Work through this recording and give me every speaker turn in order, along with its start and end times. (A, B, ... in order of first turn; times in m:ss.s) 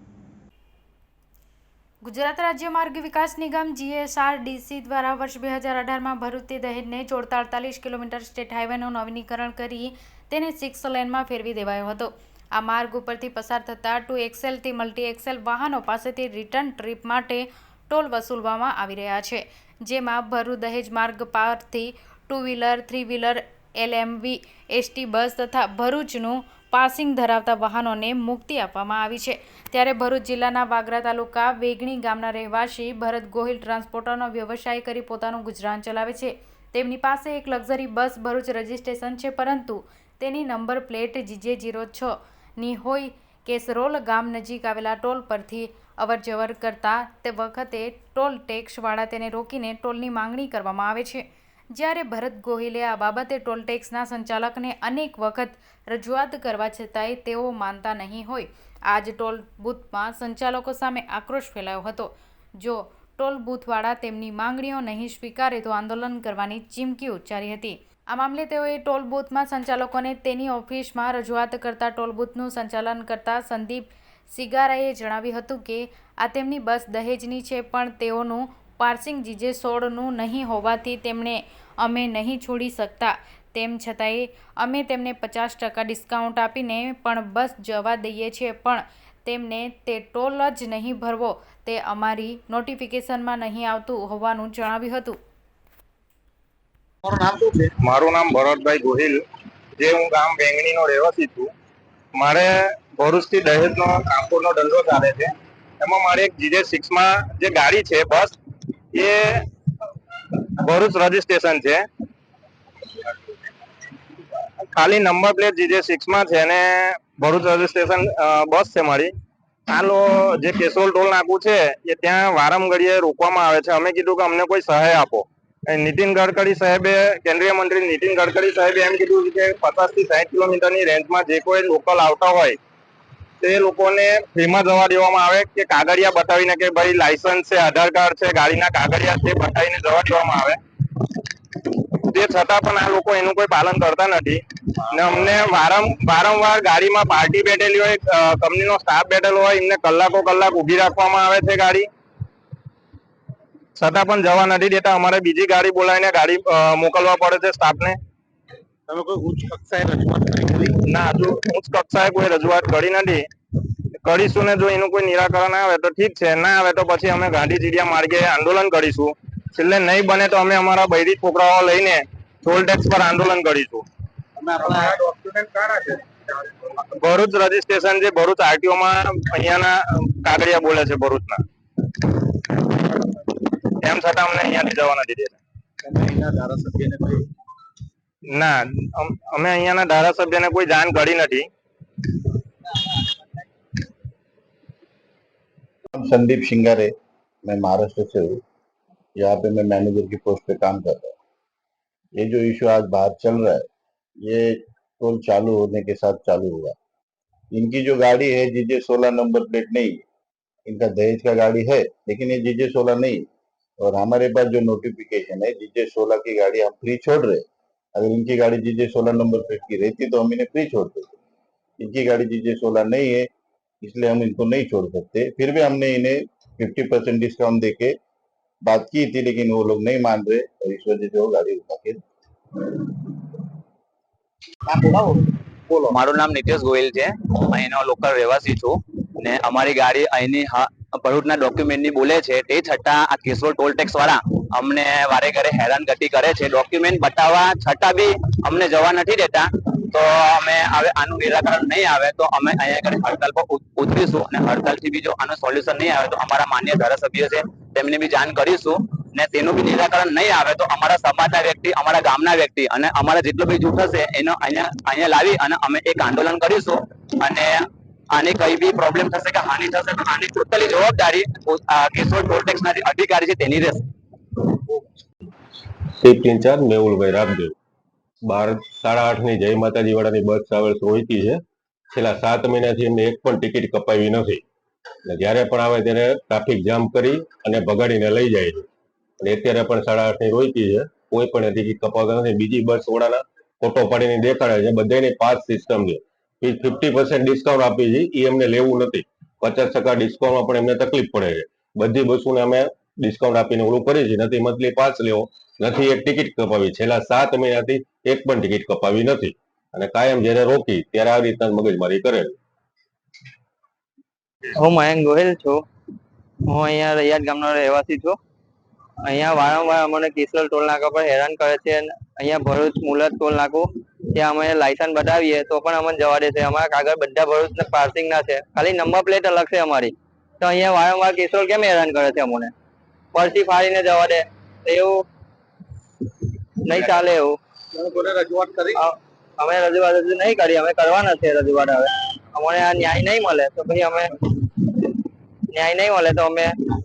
0:02.0-1:35.2 A
1:37.0-1:37.7 B
1:37.8-1:39.2 C
1:39.8-1:41.5 C
1:42.1-1:48.4 C
1:48.9-1:49.5 C
1:50.3-1:51.8 C
1:53.0-1:53.3 C
1:54.6-1:59.1 C
1:59.7-2:12.6 C
2:13.4-2:20.6 C
2:21.6-2:31.9 C
2:33.7-2:38.0 C
2:38.9-2:40.7 B
2:40.8-2:43.3 C
2:44.0-2:53.9 C
2:54.4-2:55.9 B
2:56.9-3:01.4 C
3:02.0-3:02.6 C
3:03.8-3:05.4 C
3:05.8-3:07.3 B
3:08.3-3:11.5 C
3:15.9-3:16.9 D
3:17.4-3:18.4 D
3:19.2-3:21.1 D
3:22.2-3:23.7 D
3:24.2-3:26.8 D
3:27.5-3:30.0 D
3:30.6-3:33.2 D
3:33.8-3:41.2 D
3:41.8-3:43.3 D
3:43.8-3:47.9 D
3:48.6-3:52.0 D
3:54.7-3:55.9 B
3:55.9-4:27.6 E
4:28.1-4:33.8 E
4:36.0-4:37.5 F
4:38.3-4:41.4 F
4:41.9-4:44.4 F
4:45.0-4:48.6 F
4:49.2-5:12.3 F
5:14.6-5:15.6 G
5:16.5-5:18.2 G
5:19.1-5:32.5 G
5:33.1-5:35.0 G
5:36.6-5:37.4 G
5:38.0-5:38.7 B
5:38.7-5:44.9 G
5:45.5-5:46.5 G